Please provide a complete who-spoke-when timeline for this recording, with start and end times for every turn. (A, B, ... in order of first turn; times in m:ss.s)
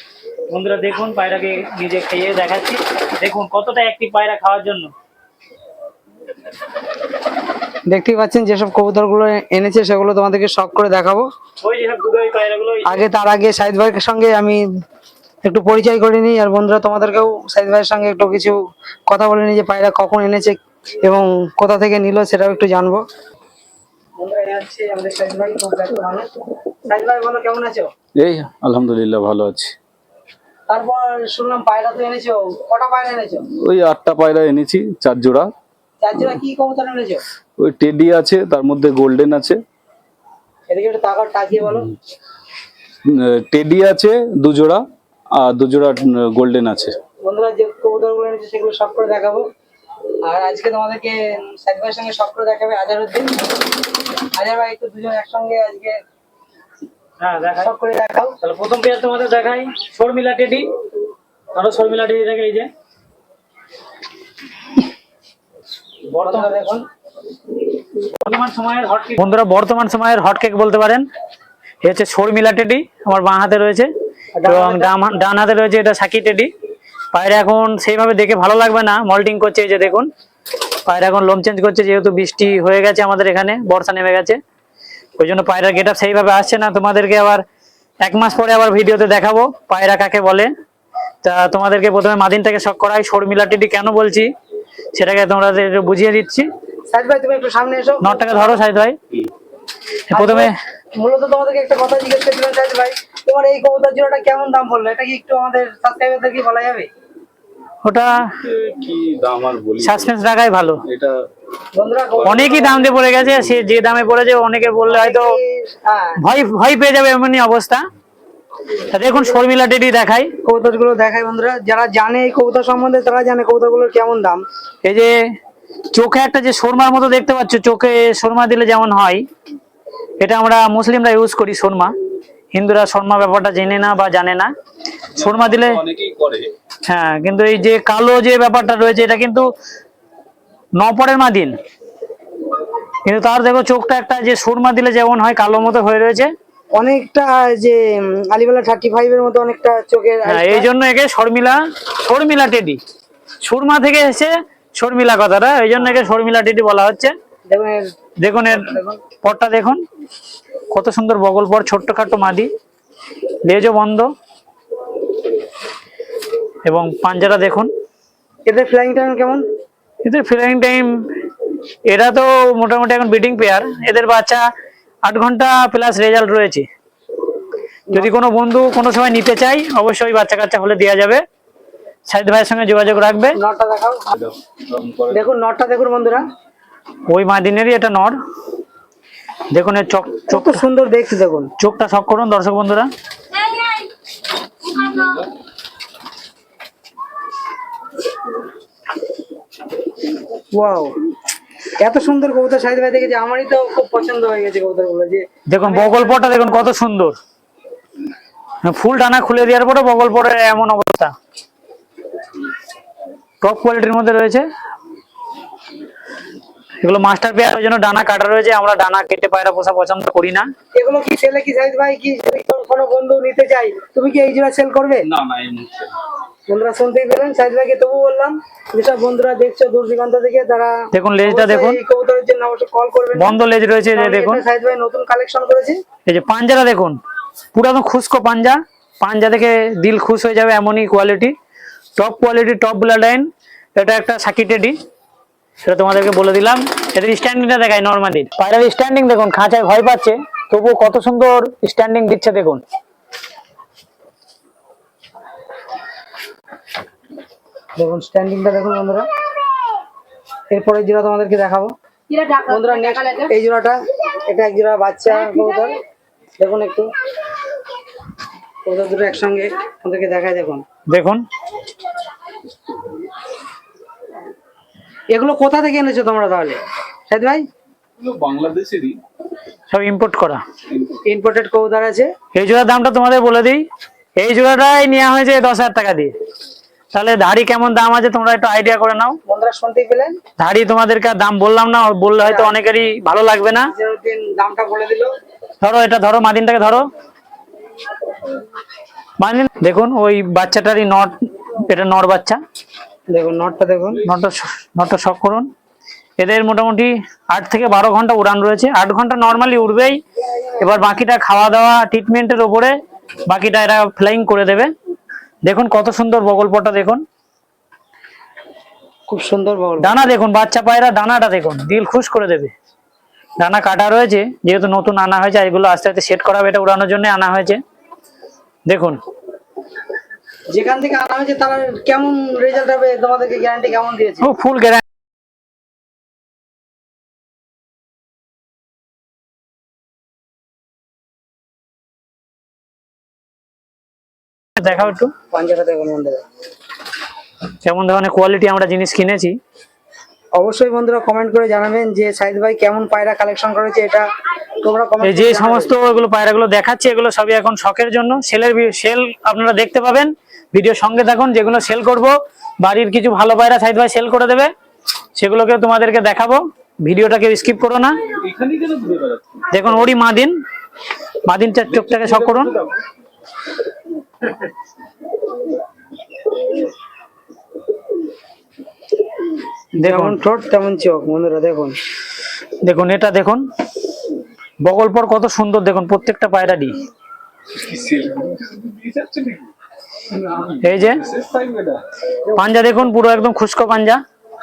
0:00.5-0:04.9 A
0:07.9-0:11.3 B
0:11.6-0:13.0 A
0:12.9-0:14.6 B
0:15.4-0:18.6 B
0:19.1-0:23.0 B
0:24.2-0:26.3 B
0:26.9-0:27.9 B
0:28.2-0:29.8 C
0:30.7-0:33.4 B
0:33.5-0:35.5 C
0:36.0-0:37.2 B
0:37.6-0:39.6 C
0:40.7-0:41.9 B
0:43.0-0:44.8 C
0:45.3-0:47.0 C
0:47.2-0:49.4 B
0:50.2-0:53.4 B
0:54.3-0:56.0 B
0:57.2-0:57.7 A
0:57.6-0:58.4 B
0:58.4-1:00.7 A
1:01.5-1:02.7 A
1:06.1-1:06.5 A
1:06.2-1:06.8 B
1:08.2-1:11.0 A
1:11.8-1:13.9 A
1:14.4-1:14.9 B
1:14.5-1:16.5 A
1:17.1-1:20.1 A
1:20.9-1:24.4 A
1:25.2-1:27.4 A
1:28.0-1:30.5 A
1:31.2-1:34.3 A
1:34.9-1:36.5 A
1:36.9-1:38.6 B
1:38.0-1:39.0 A
1:40.1-1:40.5 A
1:40.1-1:46.9 B
1:47.8-1:48.3 A
1:48.4-1:50.2 C
1:49.8-1:50.8 A
1:50.8-1:51.2 C
1:51.8-1:52.9 B
1:52.2-1:53.4 C
1:52.2-1:55.3 A
1:54.9-1:56.2 B
1:56.2-1:57.8 A
1:58.9-2:00.3 A
1:59.0-1:59.4 B
2:00.4-2:04.4 B
2:04.8-2:05.1 A
2:05.9-2:09.2 A
2:10.2-2:11.9 A
2:12.5-2:14.5 A
2:15.2-2:16.5 C
2:15.2-2:15.8 A
2:16.9-2:19.5 A
2:20.8-2:21.6 A
2:23.0-2:26.3 A
2:26.7-2:30.7 B
2:30.3-2:32.8 A
2:33.4-2:37.1 A
2:37.5-2:37.9 B
2:38.2-2:38.7 A
2:38.5-2:39.0 B
2:39.2-2:39.8 A
2:40.7-2:42.5 A
2:43.4-2:44.1 A
2:46.6-2:47.7 A
2:48.5-2:49.4 B
2:50.0-2:50.9 A
2:51.9-2:54.4 A
2:55.0-2:56.7 A
2:57.9-3:01.2 A
3:02.1-3:03.4 A
3:03.4-3:04.1 B
3:04.2-3:05.2 C
3:05.1-3:06.3 B
3:07.1-3:08.2 A
3:09.5-3:10.6 A
3:10.3-3:11.5 B
3:11.6-3:12.9 A
3:20.5-3:20.9 B
3:21.8-3:26.7 B
3:25.5-3:27.2 A
3:28.6-3:31.1 A
3:33.4-3:34.4 A
3:36.8-3:40.5 A
3:40.7-3:45.1 B
3:45.0-3:45.9 C
3:46.5-3:53.4 B
3:50.9-3:51.8 A
3:53.2-3:54.4 A
3:53.9-3:55.8 B
3:56.1-3:57.0 A
3:57.5-4:01.3 A
4:02.0-4:04.8 A
4:05.6-4:12.6 A
4:17.8-4:19.1 B
4:20.5-4:21.7 B
4:22.3-4:25.8 B
4:26.4-4:26.9 B
4:28.6-4:30.6 B
4:30.9-4:31.2 A
4:35.1-4:37.5 B
4:38.0-4:39.0 C
4:39.7-4:40.4 A
4:40.7-4:41.0 C
4:41.0-4:42.1 B
4:42.3-4:43.6 A
4:44.2-4:46.1 A
4:46.9-4:49.2 A
4:49.3-4:50.2 B
4:50.4-4:53.7 A
4:52.2-4:52.6 B
4:53.6-4:55.1 B
4:55.6-4:56.9 A
4:59.2-5:02.4 A
5:03.1-5:04.1 B
5:04.0-5:05.5 A
5:06.2-5:10.0 A
5:10.6-5:12.8 A
5:13.3-5:14.7 A
5:15.4-5:17.0 A
5:19.1-5:19.9 B
5:19.8-5:22.5 A
5:23.4-5:27.6 A
5:28.7-5:29.0 A
5:30.5-5:34.3 B
5:34.2-5:34.8 A
5:44.6-5:45.1 A
5:45.2-5:46.2 B
5:47.6-5:49.4 A
5:50.4-5:54.1 B
5:54.6-5:55.8 B
5:55.0-6:04.5 A
6:05.2-6:08.0 A
6:08.1-6:09.6 C
6:09.5-6:10.4 A
6:11.3-6:12.5 A
6:11.7-6:12.8 C
6:19.8-6:21.8 B
6:19.8-6:20.2 A
6:22.6-6:23.4 A
6:24.6-6:26.8 A
6:27.5-6:29.5 C
6:30.1-6:31.8 C
6:30.6-6:31.0 A
6:32.4-6:34.0 A